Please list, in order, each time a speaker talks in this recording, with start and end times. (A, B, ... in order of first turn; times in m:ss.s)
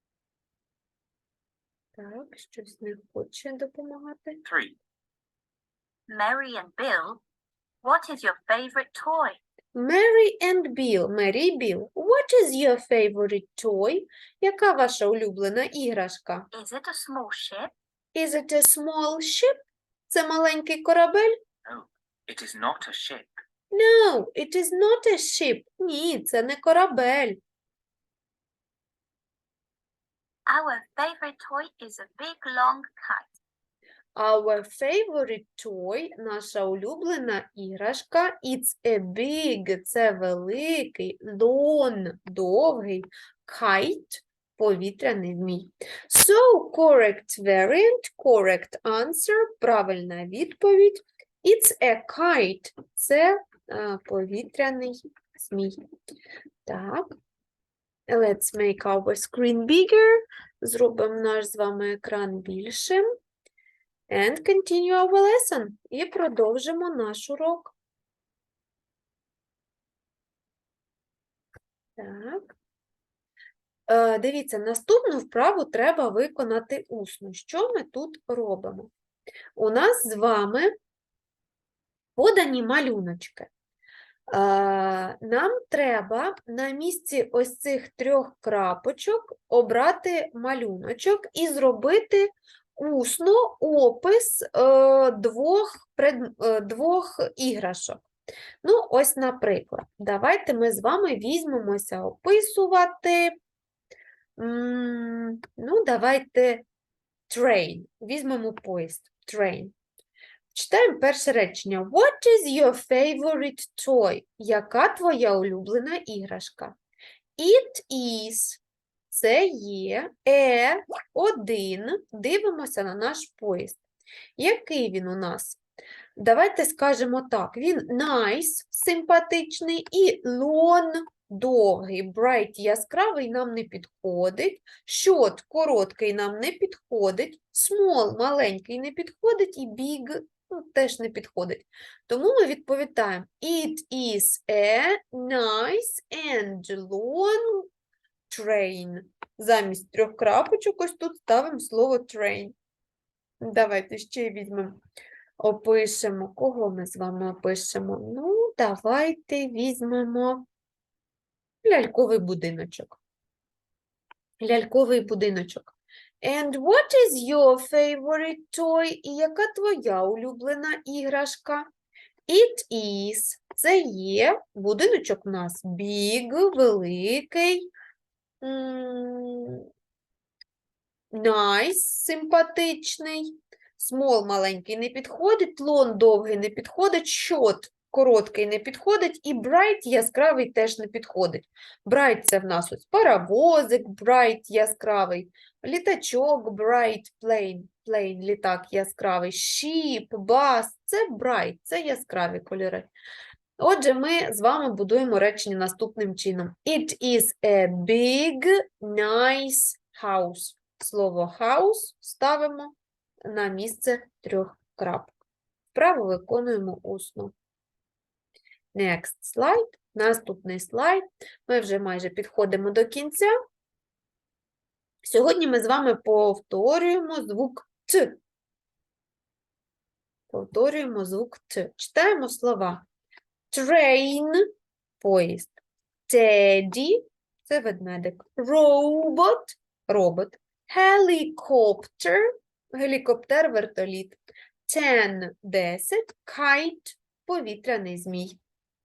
0:02.0-0:04.4 A
0:04.4-0:04.8 B
0:06.1-0:07.2 C
0:07.8-0:09.4 C
0:09.7-0:16.5 A
0:16.5-0:17.7 C
0:18.1-0:21.4 A
0:21.6-0:23.4 B
0:23.7-0:27.4 A
0:30.5-0:33.4 C
0:34.2-0:55.8 A
0:56.6-0:57.1 A
0:58.1-1:03.0 A
1:04.1-1:07.7 A
1:12.0-1:12.5 A
1:13.9-1:18.9 A
1:19.6-1:20.7 A
1:22.2-1:23.5 A
1:24.3-1:38.0 A
1:38.6-1:43.4 A
1:44.4-1:46.6 A
1:47.3-1:49.7 A
1:50.5-1:56.8 A
1:57.4-2:03.8 A
2:04.4-2:05.6 A
2:06.2-2:27.7 A
2:28.3-2:32.5 A
2:33.4-2:34.8 A
2:35.4-2:40.5 A
2:41.6-2:43.0 A
2:44.4-2:51.7 A
2:52.3-2:57.7 A
2:58.4-2:59.6 A
3:01.1-3:22.9 A
3:23.6-3:35.1 A
3:35.7-3:37.3 A
3:38.7-3:43.3 A
3:45.0-3:48.2 A
3:50.3-3:52.8 A
3:53.5-3:54.4 A
3:55.0-3:55.5 A
3:56.1-4:08.4 A